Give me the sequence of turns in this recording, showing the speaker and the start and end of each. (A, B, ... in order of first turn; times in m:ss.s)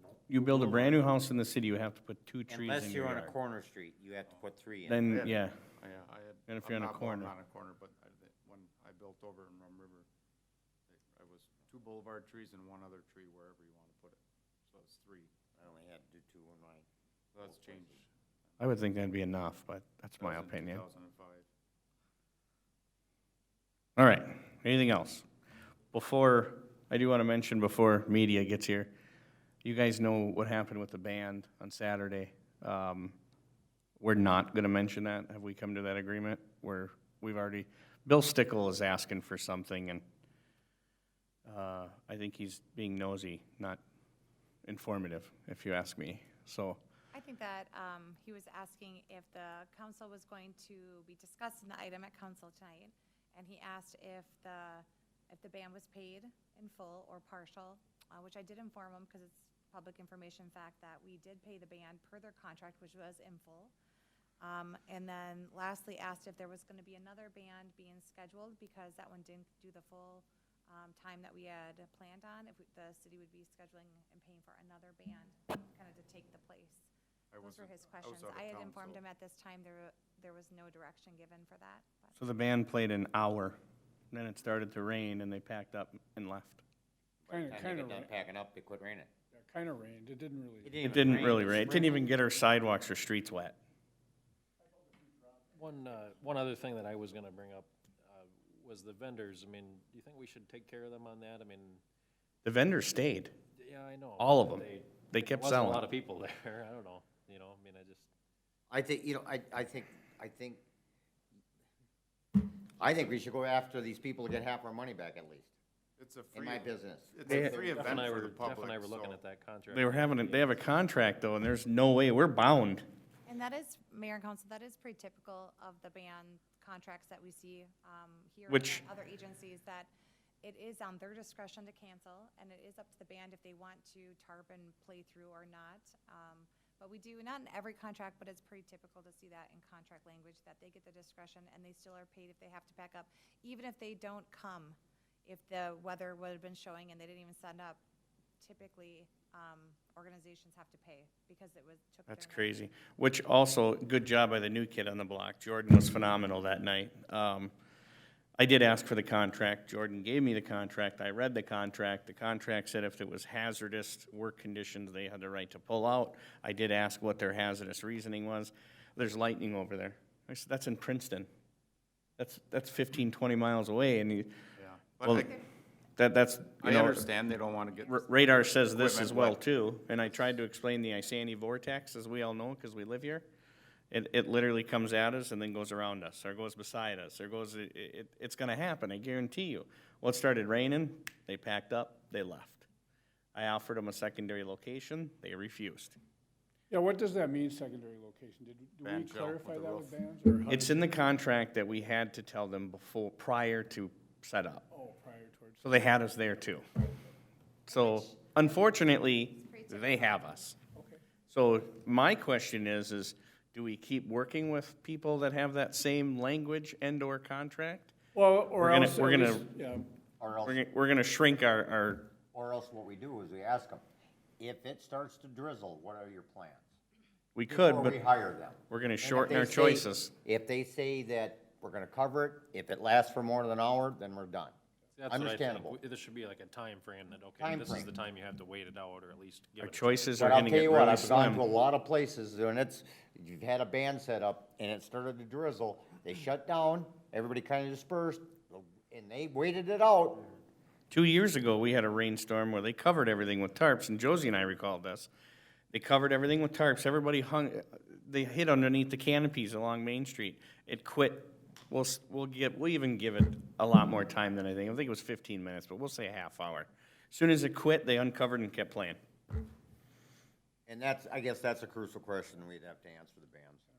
0:00.3-0:03.3 A
0:02.5-0:05.2 B
0:04.9-0:05.6 A
0:05.1-0:10.1 C
0:06.5-0:07.3 A
0:10.9-0:15.4 C
0:15.6-0:16.9 B
0:17.3-0:18.1 C
0:17.4-0:18.0 B
0:18.6-0:20.8 A
0:20.2-0:21.5 C
0:24.0-0:25.3 A
0:25.9-0:28.9 A
0:29.6-0:33.2 A
0:34.0-0:40.0 A
0:41.5-0:43.8 A
0:44.6-0:46.8 A
0:47.1-1:03.7 D
1:04.4-1:16.9 D
1:17.3-1:19.0 C
1:17.4-1:22.2 D
1:22.2-1:23.6 A
1:24.1-1:26.6 A
1:27.3-1:29.1 B
1:27.3-1:28.1 E
1:29.3-1:30.8 E
1:30.6-1:32.1 B
1:30.8-1:33.6 A
1:35.2-1:35.5 E
1:35.6-1:41.8 F
1:42.4-1:43.3 A
1:43.6-1:48.1 F
1:44.2-1:45.9 A
1:48.7-1:50.6 B
1:52.8-1:55.5 B
1:56.0-1:59.2 C
1:56.3-1:58.1 B
1:57.3-2:00.6 F
1:59.7-2:02.8 A
2:03.3-2:09.9 D
2:08.5-2:08.8 A
2:10.4-2:27.8 D
2:28.4-2:32.5 D
2:32.1-2:37.5 A
2:38.4-2:51.3 A
2:52.2-2:54.3 A
2:54.6-2:55.3 C
2:55.0-2:55.3 A
2:56.0-2:57.0 A
2:56.6-2:58.1 C
2:57.9-3:03.3 A
2:58.7-2:59.4 C
3:03.9-3:12.7 A
3:13.4-3:16.0 A
3:16.7-3:20.9 E
3:18.8-3:20.0 C
3:20.5-3:24.7 A
3:24.7-3:25.9 E
3:25.6-3:26.7 A
3:27.7-3:30.6 A
3:27.7-3:30.3 D
3:30.8-3:31.0 E
3:31.3-3:37.9 A
3:38.2-3:39.9 E
3:38.6-3:39.4 A
3:40.2-3:40.6 B
3:40.4-3:42.1 A
3:42.3-3:43.8 B
3:44.4-3:46.7 B
3:47.4-3:48.0 A
3:47.5-3:54.6 B
3:48.7-3:50.1 A
3:55.0-4:00.3 F
3:55.1-3:55.8 B
3:57.4-3:57.9 B
3:59.6-4:01.4 A
4:00.2-4:10.3 B
4:10.9-4:15.1 A
4:15.7-4:29.0 A
4:30.7-4:33.6 B